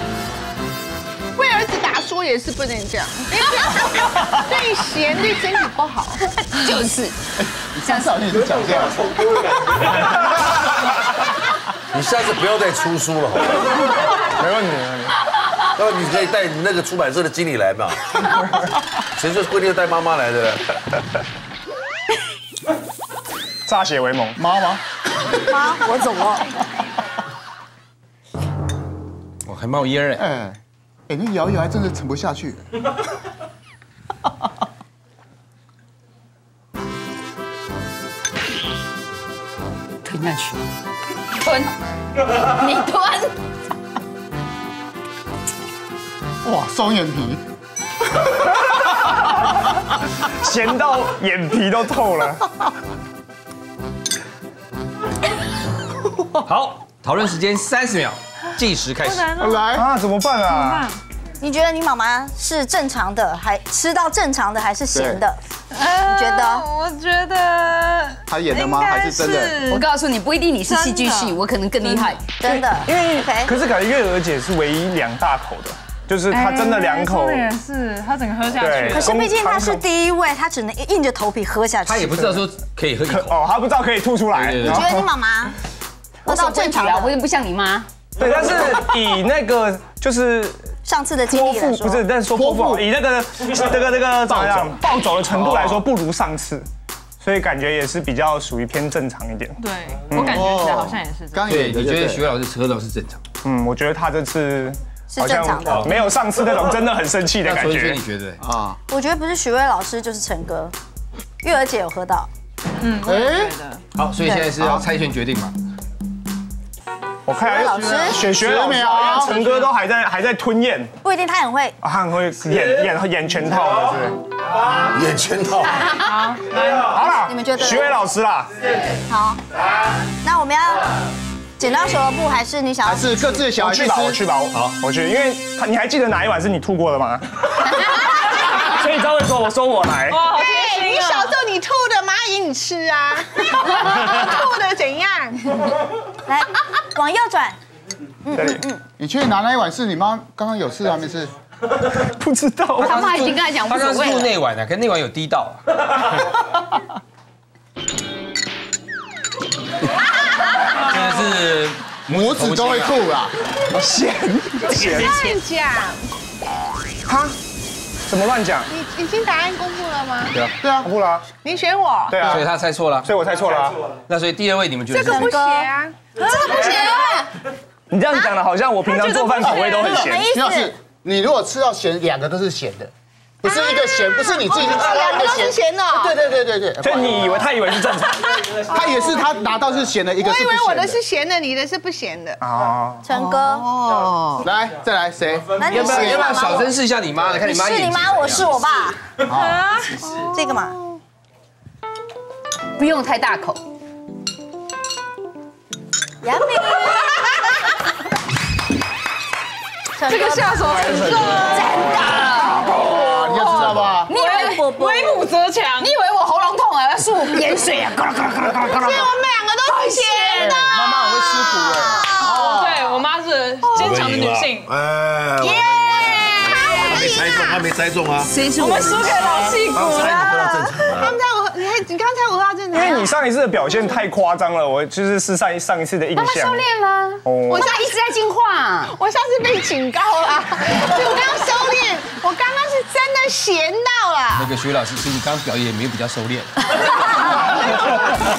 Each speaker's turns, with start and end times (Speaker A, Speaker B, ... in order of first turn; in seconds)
Speaker A: 1.4-6.2, 140.3-145.6, 164.7-166.1, 168.7-170.3, 171.4-172.2, 174.9-176.0, 183.4-186.1, 190.2-192.4, 193.1-194.4, 218.6-220.6, 225.4-227.6, 230.9-233.1, 237.5-237.9, 238.9-244.5
Speaker B: 6.5-7.1, 7.9-8.1, 40.0-40.6, 41.4-41.7, 42.3-43.3, 69.6-72.3, 86.3-87.9, 152.8-154.3, 176.2-177.3, 202.8-203.6, 211.5-213.5, 214.1-214.8, 215.8-219.1, 219.6-220.6, 226.1-227.2, 228.2-230.1, 232.7-233.0, 236.2-238.9
Speaker C: 7.4-9.8, 24.4-24.8, 30.2-32.6, 46.4-47.4, 59.4-59.8, 64.9-65.2, 68.3-69.7, 92.3-92.8, 94.3-94.7, 100.1-102.3, 108.4-108.8, 113.0-113.5, 114.6-114.8, 118.2-119.5, 123.7-124.1, 132.8-134.2, 149.0-151.3, 162.1-163.3, 170.6-170.9, 180.3-182.9, 183.4-187.5, 188.6-191.0, 194.4-196.4, 199.2-199.6, 212.9-214.1, 220.3-222.9
Speaker D: 11.9-13.8, 15.8-18.3, 19.1-20.6, 124.7-126.0, 213.5-213.9, 223.8-228.3, 229.7-231.2, 247.5-247.9
Speaker E: 14.3-15.1, 18.4-18.7, 23.6-24.4, 50.2-52.5, 59.7-60.9, 72.4-77.5, 78.5-79.8, 83.1-85.0, 88.2-90.7, 91.2-96.7, 97.2-99.6, 100.1-100.5, 103.4-108.0, 117.3-120.9, 121.8-124.1, 126.8-128.5, 133.5-137.2, 138.6-140.3, 148.3-148.6, 152.0-153.1, 163.7-165.3, 167.1-167.3, 168.1-168.7, 170.3-171.2, 172.1-172.5, 173.0-173.8, 177.9-180.2, 186.8-188.2, 192.4-193.0, 210.7-211.5, 232.7-236.7, 237.2-237.7
Speaker F: 25.5-26.5, 61.4-65.4, 66.0-66.7, 72.3-73.5, 78.8-82.1, 84.6-85.5, 86.2-87.1, 90.8-92.1, 105.1-105.9, 108.9-110.7, 111.4-112.3, 114.2-114.5, 117.4-118.3, 121.0-121.8, 127.1-128.0, 129.1-129.4, 130.2-130.9, 131.6-133.5, 146.2-147.6, 148.2-148.8, 175.0-175.7, 176.2-177.2, 179.5-180.7, 193.0-194.0, 195.5-196.7, 197.2-199.0, 200.0-200.7, 206.2-207.7, 209.9-211.6, 214.1-215.2, 229.8-230.7
Speaker G: 29.4-30.2, 56.5-59.3, 81.8-83.4, 84.3-84.9, 101.5-103.2, 105.6-106.0, 107.4-108.4, 113.9-115.5, 152.8-155.8, 160.7-163.0, 172.2-173.1, 174.1-175.4, 195.7-198.6, 244.3-246.5
Speaker H: 59.0-59.7, 60.5-61.0, 65.7-69.8, 70.7-72.2, 76.3-79.1, 99.6-101.5, 112.8-113.8, 126.0-127.0, 140.1-141.3, 199.3-200.0, 210.1-211.7, 213.0-215.9, 222.2-224.7, 228.6-230.6